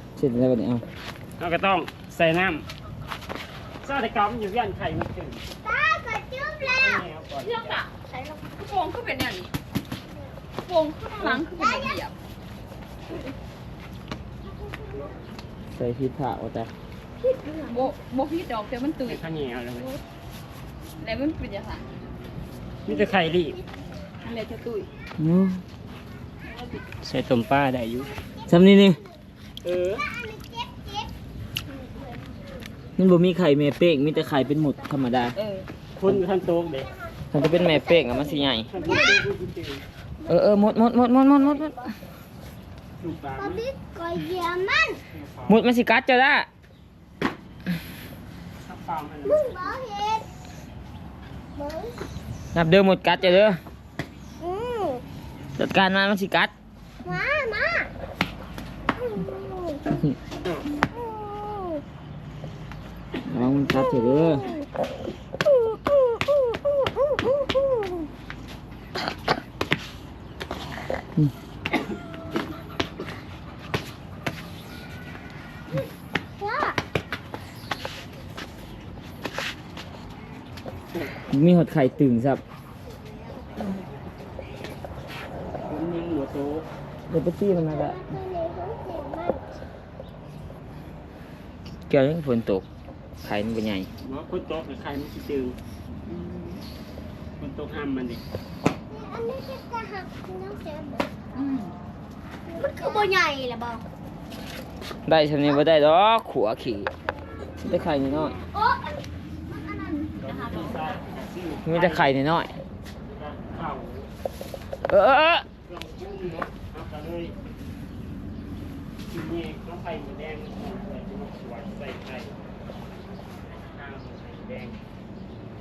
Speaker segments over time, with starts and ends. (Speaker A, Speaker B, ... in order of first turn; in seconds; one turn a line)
Speaker A: 0.1-0.8
Speaker B: 1.4-2.6
Speaker B: 3.8-5.4
Speaker C: 5.6-7.0
Speaker B: 6.7-7.8
Speaker D: 7.4-9.5
Speaker D: 10.6-12.1
Speaker C: 11.2-11.7
Speaker A: 15.7-16.7
Speaker D: 17.3-19.2
Speaker B: 19.0-20.0
Speaker D: 21.0-21.9
Speaker B: 22.9-23.6
Speaker D: 24.2-24.9
Speaker A: 25.2-25.6
Speaker D: 26.6-26.8
Speaker B: 27.0-28.1
Speaker A: 28.5-29.0
Speaker B: 29.6-30.0
Speaker C: 30.1-31.1
Speaker A: 33.0-35.4
Speaker D: 35.4-35.7
Speaker B: 36.0-36.9
Speaker A: 37.3-38.7
Speaker C: 37.7-39.2
Speaker B: 38.7-39.8
Speaker A: 40.3-41.9
Speaker B: 43.0-43.6
Speaker C: 43.4-45.0
Speaker B: 45.1-45.6
Speaker A: 45.5-46.5
Speaker B: 48.6-49.7
Speaker C: 49.2-50.3
Speaker C: 51.5-52.0
Speaker A: 52.5-53.6
Speaker C: 54.4-55.0
Speaker A: 55.6-56.5
Speaker C: 57.0-57.9
Speaker C: 59.1-59.8
Speaker C: 60.9-61.8
Speaker A: 63.2-64.5
Speaker C: 64.0-64.6
Speaker C: 65.7-67.7
Speaker C: 76.4-76.8
Speaker A: 81.3-82.4
Speaker B: 85.6-86.7
Speaker A: 87.1-88.0
Speaker C: 87.7-89.5
Speaker A: 91.9-92.7
Speaker A: 93.2-93.9
Speaker B: 94.0-95.6
Speaker D: 96.1-96.6
Speaker B: 97.4-98.2
Speaker C: 98.9-101.1
Speaker D: 101.3-101.7
Speaker C: 102.5-103.8
Speaker A: 105.0-106.9
Speaker A: 107.6-108.4
Speaker C: 108.5-109.0
Speaker B: 110.2-112.1
Speaker D: 110.3-111.0
Speaker A: 111.6-112.6
Speaker B: 113.0-114.1
Speaker A: 114.9-115.4
Speaker B: 115.7-117.3
Speaker B: 119.1-122.4
Speaker B: 123.5-124.8